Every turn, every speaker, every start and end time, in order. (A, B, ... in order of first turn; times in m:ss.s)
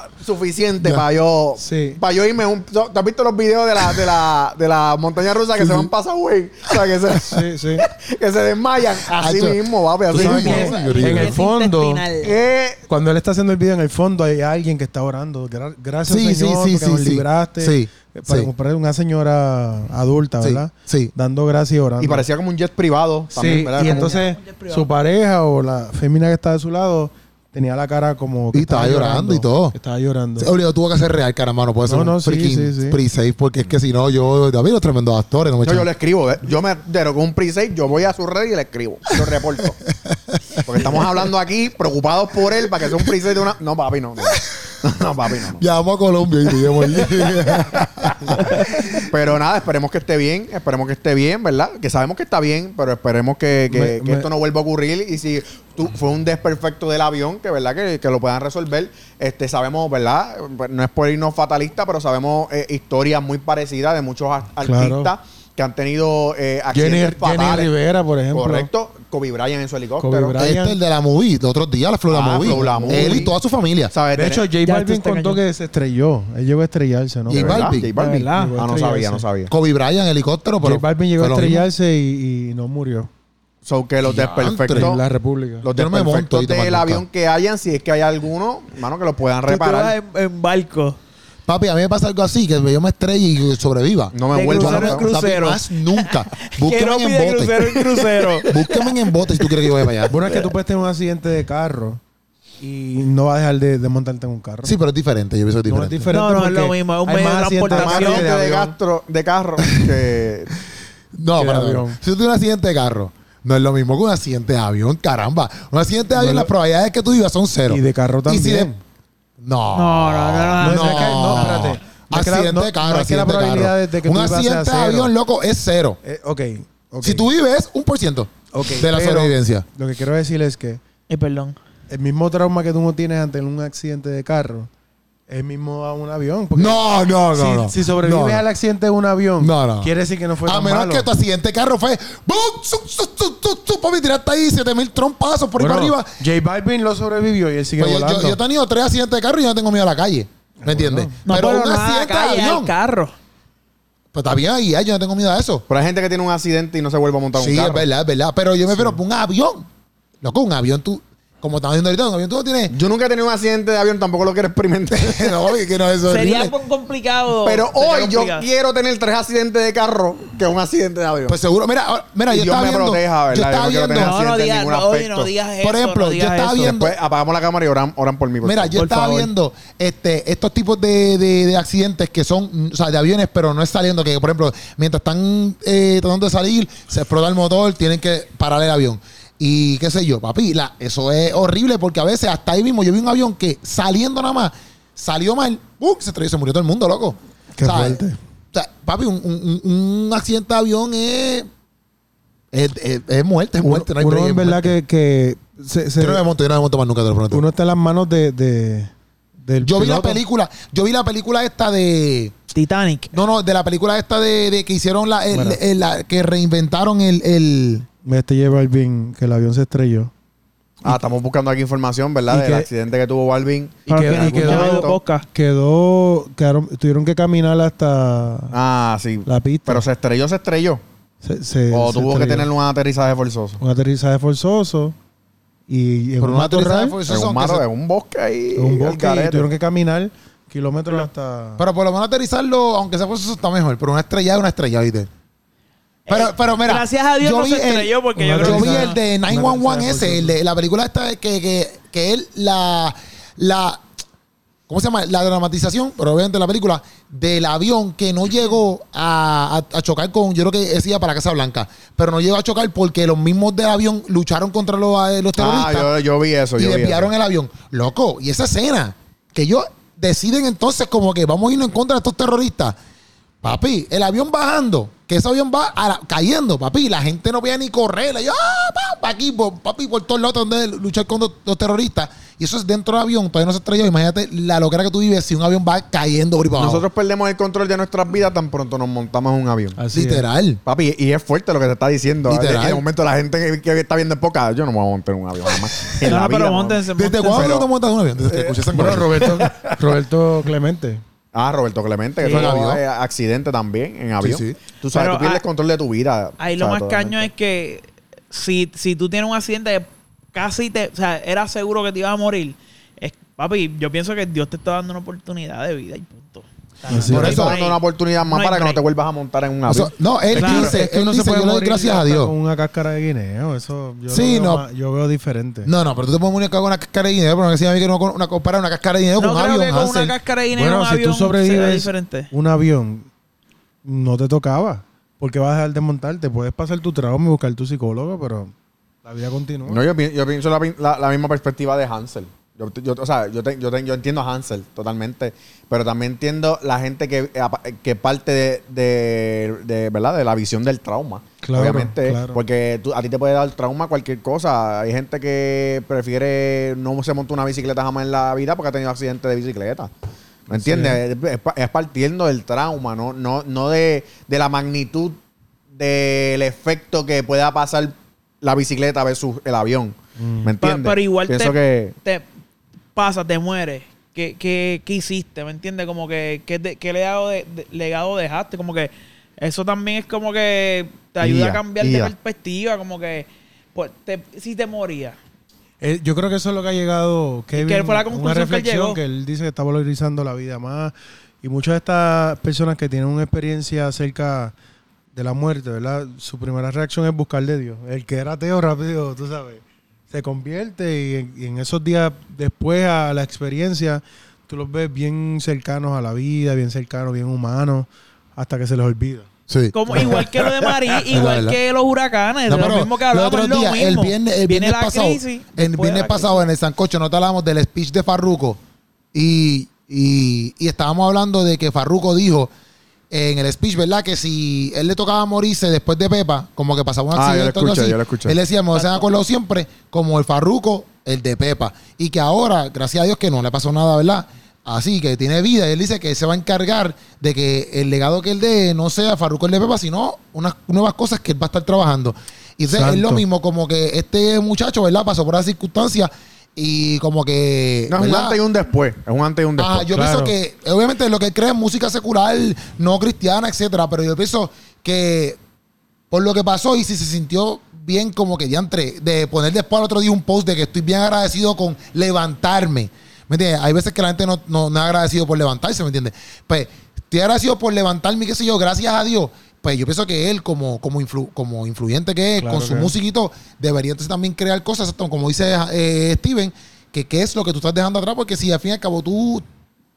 0:00.2-0:10.7 A
0:01.6-0:02.0 B
0:05.5-0:05.9 C
0:07.3-0:07.8 B
0:09.0-0:09.6 C
0:10.1-0:12.0 B
0:10.1-0:11.4 C
0:10.2-0:12.4 D
0:12.2-0:12.8 A
0:12.9-0:22.2 B
0:16.1-0:18.5 C
0:20.4-0:21.1 C
0:22.0-0:24.1 A
0:23.3-0:30.5 B
0:23.7-0:24.9 D
0:28.5-0:29.7 C
0:30.4-0:35.9 C
0:31.8-0:33.0 B
0:35.6-0:39.8 A
0:39.9-0:41.3 C
0:40.6-0:45.6 A
0:42.8-0:43.1 C
0:44.2-0:44.7 C
0:45.5-0:49.1 C
0:46.6-1:07.7 A
0:53.7-0:54.3 B
1:04.6-1:05.1 B
1:06.7-1:08.7 B
1:08.3-1:10.4 A
1:10.0-1:10.8 B
1:10.4-1:13.9 C
1:12.1-1:13.3 A
1:12.4-1:13.3 B
1:13.9-1:14.5 A
1:14.1-1:17.7 B
1:14.6-1:15.4 D
1:17.3-1:17.9 C
1:17.3-1:19.5 A
1:18.0-1:18.5 D
1:18.3-1:19.2 B
1:19.5-1:21.7 C
1:20.6-1:23.1 B
1:23.6-1:25.0 A
1:24.0-1:24.9 C
1:24.7-1:25.7 B
1:25.6-1:29.9 A
1:25.8-1:27.0 C
1:29.4-1:31.0 D
1:31.4-1:40.1 C
1:34.1-1:35.1 A
1:34.3-1:39.5 D
1:40.1-1:42.0 B
1:42.6-1:44.7 B
1:44.6-1:46.0 C
1:45.6-1:48.8 B
1:46.1-1:48.2 D
1:47.7-1:50.5 A
1:51.1-1:58.7 C
1:51.3-1:52.0 B
1:56.1-1:56.5 B
1:57.7-1:58.8 B
1:59.4-2:06.0 C
1:59.7-2:01.6 D
2:00.6-2:05.1 B
2:06.0-2:07.3 B
2:07.0-2:09.6 C
2:08.5-2:10.8 B
2:11.1-2:11.6 D
2:11.9-2:14.7 B
2:15.3-2:21.1 B
2:16.5-2:18.4 C
2:19.4-2:19.9 C
2:20.4-2:26.1 C
2:25.6-2:28.4 B
2:27.8-2:32.7 C
2:30.6-2:31.2 B
2:31.2-2:33.1 D
2:34.1-2:35.6 C
2:35.7-2:37.8 A
2:37.4-2:39.6 C
2:40.2-2:42.7 C
2:42.7-2:45.4 A
2:44.9-2:46.5 C
2:46.1-2:48.5 D
2:47.4-2:51.4 A
2:51.3-2:54.2 C
2:52.3-2:55.3 A
2:53.9-2:56.7 D
2:55.6-2:56.9 C
2:56.6-2:58.8 A
2:58.4-3:18.0 C
2:58.7-2:59.3 D
3:17.5-3:18.2 B
3:18.5-3:21.5 C
3:22.5-3:24.7 C
3:23.6-3:26.2 B
3:26.0-3:27.4 C
3:27.3-3:30.2 B
3:29.6-3:32.4 C
3:32.5-3:33.1 D
3:33.1-3:37.8 C
3:35.3-3:35.6 B
3:38.0-3:40.1 B
3:40.8-3:45.0 A
3:42.3-3:42.7 B
3:43.8-3:45.2 D
3:43.8-3:48.6 B
3:48.5-3:50.8 A
3:49.2-3:49.8 B
3:51.2-3:52.5 B
3:51.7-3:53.6 A
3:53.6-3:54.9 B
3:55.7-3:57.0 B
3:56.2-3:57.6 C
3:57.1-3:59.5 A
3:58.5-4:01.6 B
4:01.6-4:05.1 C
4:06.1-4:09.0 D
4:06.1-4:13.8 C
4:08.2-4:10.4 B
4:14.7-4:25.9 C
4:25.4-4:27.1 A
4:26.6-4:32.8 C
4:33.4-4:46.8 C
4:46.6-4:49.8 A
4:49.8-4:50.3 B
4:49.9-4:50.6 C
4:50.6-4:57.7 A
4:52.2-4:52.8 C
4:56.0-4:57.6 D
4:56.9-4:59.3 C
4:58.3-4:59.8 A
4:58.7-5:01.0 B
5:01.3-5:07.3 A
5:02.2-5:02.5 D
5:02.3-5:02.8 C
5:04.2-5:04.6 C
5:04.9-5:05.4 D
5:06.4-5:18.8 D
5:16.9-5:17.4 B
5:17.1-5:17.6 C
5:17.1-5:20.7 A
5:19.7-5:22.3 C
5:20.3-5:20.8 D
5:20.4-5:25.7 B
5:24.1-5:24.6 C
5:25.6-5:30.1 C
5:29.2-5:32.3 D
5:30.5-5:33.1 B
5:33.8-5:38.5 B
5:39.0-5:39.8 B
5:39.7-5:59.9 A
5:51.4-5:52.4 B
6:00.5-6:01.0 B
6:00.5-6:05.2 A
6:05.7-6:12.0 A
6:10.2-6:10.5 B
6:10.6-6:12.2 D
6:12.9-6:25.2 D
6:21.2-6:22.1 A
6:25.8-6:34.5 B
6:27.5-6:29.0 D
6:35.1-6:49.3 B
6:49.5-6:50.3 C
6:49.7-6:56.4 D
6:51.1-6:51.6 C
6:52.5-6:58.6 C
6:59.1-7:02.5 C
7:03.1-7:28.4 C
7:07.1-7:08.4 A
7:08.8-7:09.0 D
7:22.7-7:23.2 B
7:27.9-7:29.9 A
7:29.6-7:35.4 C
7:29.9-7:30.3 B
7:36.1-7:59.4 C
7:52.4-7:52.9 B